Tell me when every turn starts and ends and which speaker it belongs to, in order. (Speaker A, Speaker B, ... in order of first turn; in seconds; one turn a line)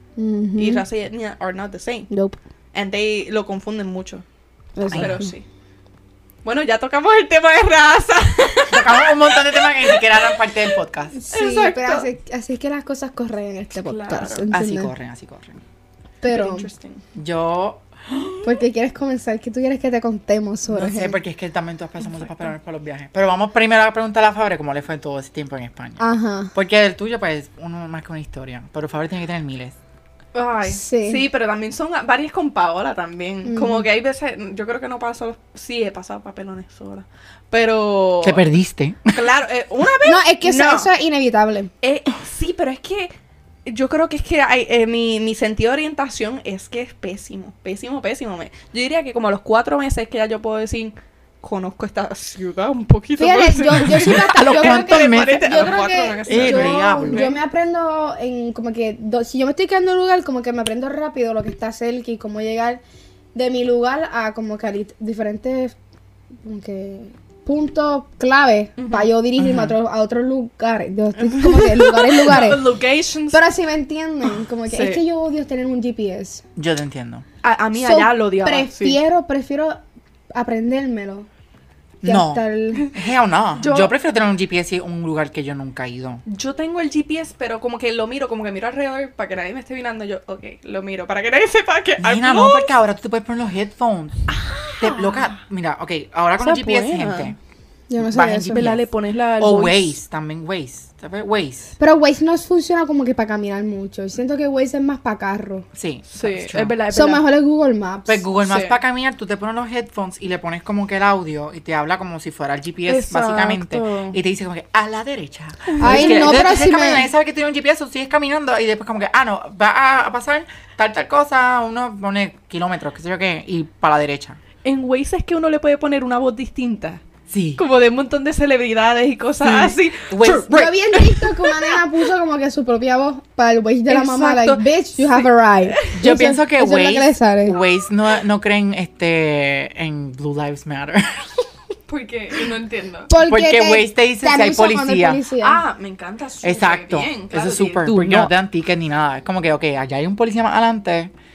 Speaker A: 0.2-0.8
Speaker B: 0.6-2.1
Speaker A: 2.1-2.4
Speaker B: 2.7-4.2
Speaker A: 4.8-5.3
Speaker C: 4.9-5.2
Speaker B: 4.9-5.5
Speaker B: 6.4-10.6
Speaker C: 8.7-11.2
Speaker A: 11.2-14.9
Speaker B: 11.3-12.1
Speaker B: 13.8-14.5
Speaker C: 14.5-15.6
Speaker A: 16.2-16.7
Speaker B: 16.3-17.0
Speaker C: 17.1-17.8
Speaker A: 18.4-21.2
Speaker C: 20.7-26.0
Speaker A: 26.0-26.5
Speaker C: 26.5-29.8
Speaker B: 30.3-38.5
Speaker A: 30.6-31.2
Speaker A: 33.5-33.9
Speaker C: 38.2-39.3
Speaker B: 39.1-40.9
Speaker A: 40.0-41.7
Speaker B: 41.8-43.1
Speaker B: 43.7-57.4
Speaker A: 53.2-62.8
Speaker C: 53.9-55.5
Speaker C: 56.3-57.3
Speaker A: 63.3-65.8
Speaker A: 66.4-72.6
Speaker B: 68.8-69.1
Speaker C: 69.4-69.7
Speaker B: 71.2-73.5
Speaker A: 73.3-76.4
Speaker B: 74.3-75.0
Speaker C: 76.6-77.2
Speaker B: 77.4-79.0
Speaker A: 77.8-79.8
Speaker A: 80.3-81.3
Speaker A: 82.0-82.9
Speaker C: 82.0-86.2
Speaker B: 83.6-83.9
Speaker B: 86.3-92.7
Speaker C: 92.0-94.2
Speaker B: 94.3-95.4
Speaker C: 94.8-97.4
Speaker B: 96.4-97.3
Speaker A: 97.9-98.7
Speaker C: 98.0-98.9
Speaker B: 98.5-99.9
Speaker C: 99.4-101.8
Speaker A: 101.8-105.7
Speaker C: 105.7-106.8
Speaker B: 106.1-107.3
Speaker A: 106.9-108.2
Speaker C: 108.1-124.4
Speaker B: 108.4-108.8
Speaker B: 112.9-114.2
Speaker B: 115.7-116.5
Speaker A: 115.8-117.1
Speaker B: 124.6-127.0
Speaker C: 127.3-127.6
Speaker B: 127.6-131.8
Speaker C: 129.4-130.8
Speaker A: 130.2-137.6
Speaker B: 133.9-136.2
Speaker C: 135.9-141.4
Speaker B: 141.9-143.1
Speaker A: 143.1-145.6
Speaker C: 143.2-145.2
Speaker B: 145.4-148.3
Speaker C: 146.4-151.1